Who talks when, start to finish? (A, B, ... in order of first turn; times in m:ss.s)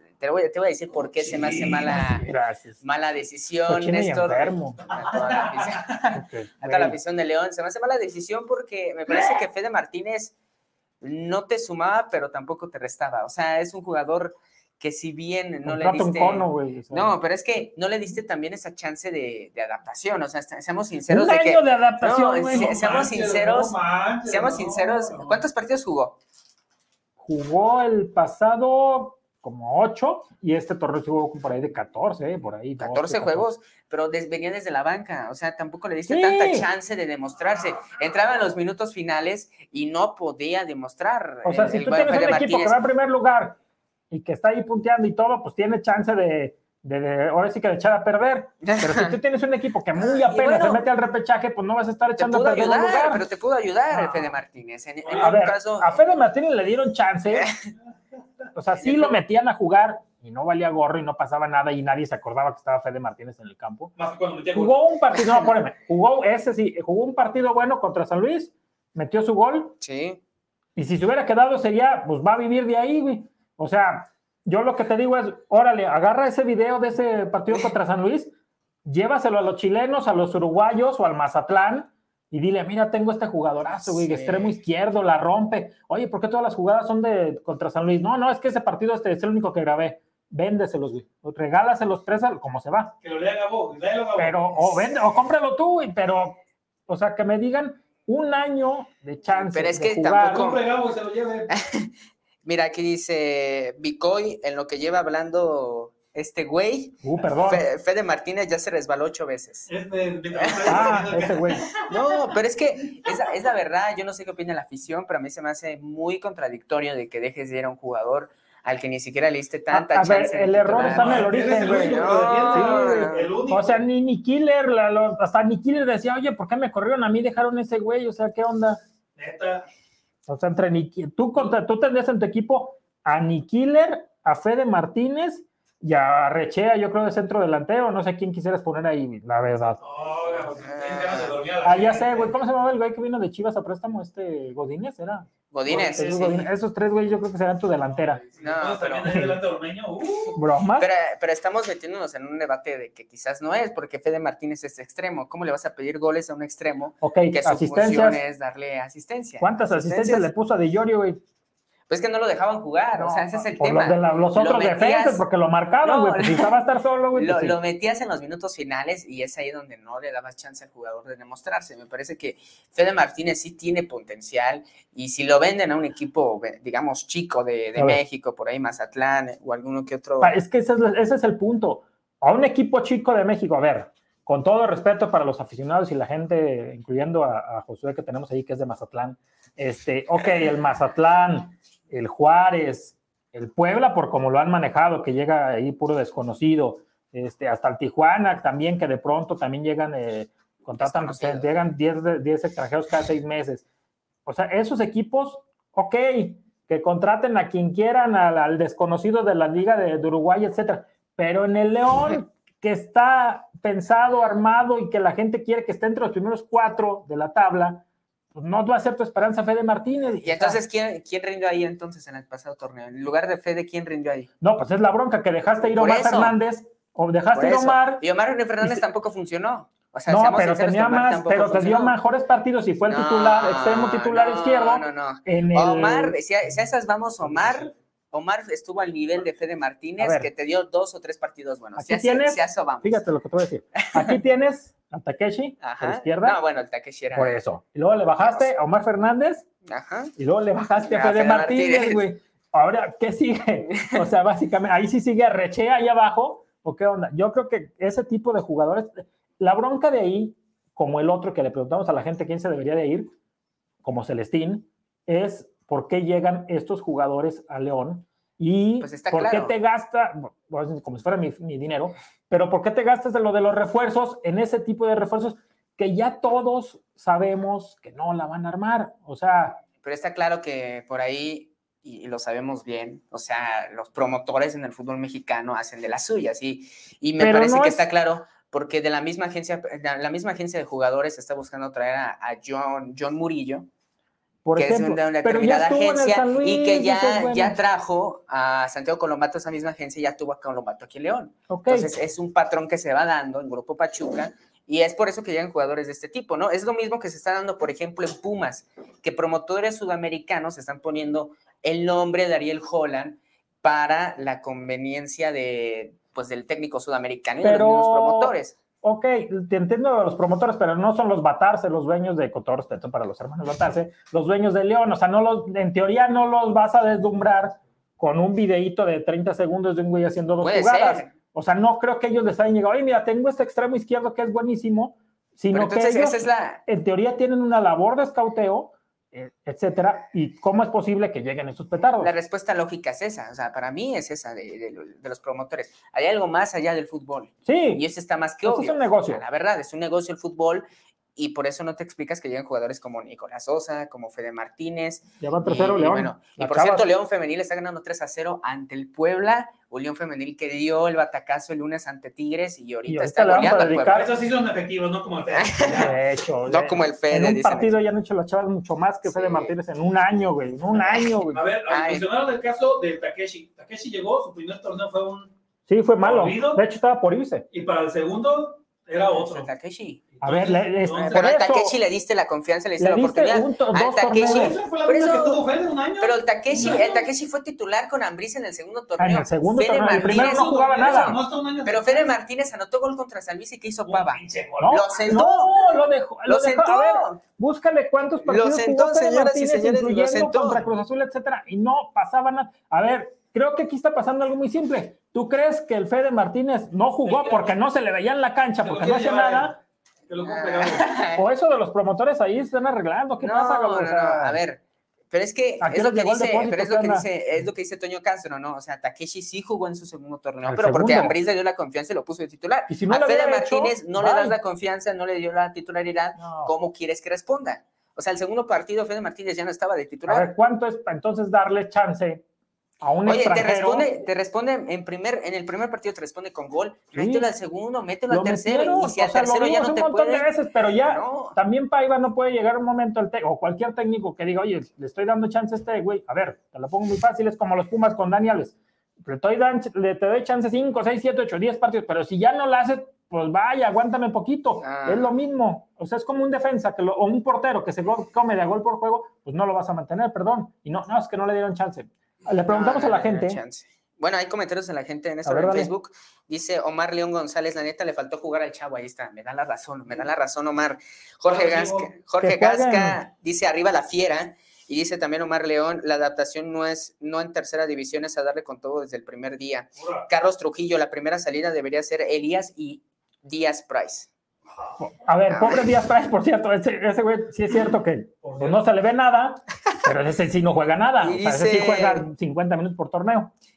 0:00.2-0:02.3 A
0:01.2-0:02.2 B
0:02.0-0:02.8 C
0:02.8-0:10.3 A
0:03.7-0:04.8 C
0:04.9-0:06.0 B
0:06.1-0:07.0 C
0:09.1-0:09.4 B
0:11.0-0:23.8 A
0:15.6-0:17.1 C
0:21.1-0:22.8 C
0:22.5-0:25.4 B
0:24.3-0:26.2 A
0:27.2-0:33.5 C
0:32.8-0:42.7 A
0:36.1-0:36.7 C
0:41.4-0:43.6 C
0:44.1-0:53.2 C
0:48.6-0:49.2 A
0:50.0-0:50.8 A
0:52.2-0:56.0 A
0:53.9-0:54.4 C
0:55.0-0:55.4 B
0:55.2-0:57.5 C
0:58.5-1:03.9 C
1:04.0-1:04.7 B
1:04.5-1:09.7 C
1:09.8-1:10.2 A
1:10.8-1:18.3 C
1:18.8-1:32.9 C
1:23.8-1:24.6 A
1:33.0-1:34.9 B
1:34.2-1:40.5 C
1:39.3-1:40.6 A
1:40.2-1:41.5 B
1:41.5-1:41.9 A
1:42.4-1:49.7 A
1:47.0-1:47.6 C
1:49.7-1:51.9 B
1:50.3-1:51.0 A
1:50.7-1:51.7 C
1:51.8-2:03.3 A
1:59.7-2:08.8 C
2:00.7-2:03.8 B
2:09.2-2:09.7 B
2:10.3-2:19.8 C
2:19.8-2:22.3 B
2:20.6-2:21.4 A
2:21.6-2:28.2 C
2:25.5-2:26.5 A
2:28.2-2:30.4 B
2:28.4-2:29.1 A
2:29.0-2:29.4 C
2:30.3-2:30.9 C
2:30.8-2:40.3 A
2:37.0-2:38.2 C
2:39.4-2:41.2 C
2:41.9-2:45.2 A
2:42.9-2:47.6 C
2:45.8-2:46.5 A
2:47.1-3:00.4 A
2:57.8-2:58.0 C
3:00.2-3:23.6 C
3:20.8-3:21.5 A
3:24.2-3:37.8 C
3:38.3-3:40.6 C
3:40.2-3:44.3 A
3:44.4-3:48.0 C
3:45.8-3:46.4 A
3:47.3-3:52.0 A
3:50.1-3:56.2 C
3:52.9-4:03.0 A
4:00.0-4:00.3 C
4:01.8-4:06.4 C
4:03.8-4:04.2 A
4:05.6-4:07.4 A
4:07.2-4:09.5 C
4:08.2-4:08.5 A
4:09.6-4:10.1 A
4:10.2-4:23.1 C
4:10.8-4:12.0 A
4:13.7-4:14.0 A
4:23.8-4:39.6 C
4:28.8-4:29.5 A
4:39.8-4:53.7 A
4:47.2-4:47.8 C
4:54.4-4:57.6 C
4:54.6-5:18.6 A
5:01.5-5:01.9 C
5:17.4-5:42.1 C
5:30.4-5:31.1 A
5:35.5-5:36.6 A
5:42.0-6:04.1 A
5:47.4-5:47.8 C
5:48.4-5:49.2 C
5:55.2-5:56.9 C
6:02.9-6:04.1 C
6:03.4-6:06.0 B
6:05.3-6:07.8 A
6:05.8-6:11.4 C
6:09.0-6:09.5 A
6:10.8-6:11.0 A
6:11.3-6:15.3 B
6:11.7-6:12.1 A
6:15.7-6:17.5 C
6:16.0-6:16.6 B
6:17.5-6:19.5 B
6:19.1-6:20.0 A
6:20.1-6:21.4 B
6:20.2-6:21.8 C
6:20.9-6:25.4 A
6:22.8-6:24.6 C
6:24.1-6:27.1 B
6:26.0-6:37.2 A
6:29.0-6:31.2 C
6:30.2-6:32.1 B
6:33.8-6:34.9 B
6:34.6-6:49.5 C
6:38.2-6:40.6 A
6:47.0-6:47.5 B
6:48.6-6:50.9 B
6:50.2-6:51.2 A
6:51.2-6:54.4 C
6:53.2-6:54.6 A
6:55.1-7:10.3 A
6:55.6-6:57.0 C
7:00.4-7:01.1 C
7:02.7-7:04.4 C
7:06.1-7:06.5 C
7:10.1-7:12.2 C
7:12.8-7:13.9 C
7:13.0-7:20.3 A
7:16.9-7:17.3 C
7:18.1-7:43.4 C
7:20.8-7:21.4 A
7:34.6-7:35.1 A
7:42.5-8:04.1 A
7:45.2-7:45.7 C
7:51.2-7:51.9 B
7:52.2-7:53.0 C
7:59.8-8:00.0 B
8:04.8-8:13.3 C
8:05.3-8:05.7 A
8:08.2-8:08.6 B
8:11.0-8:12.0 A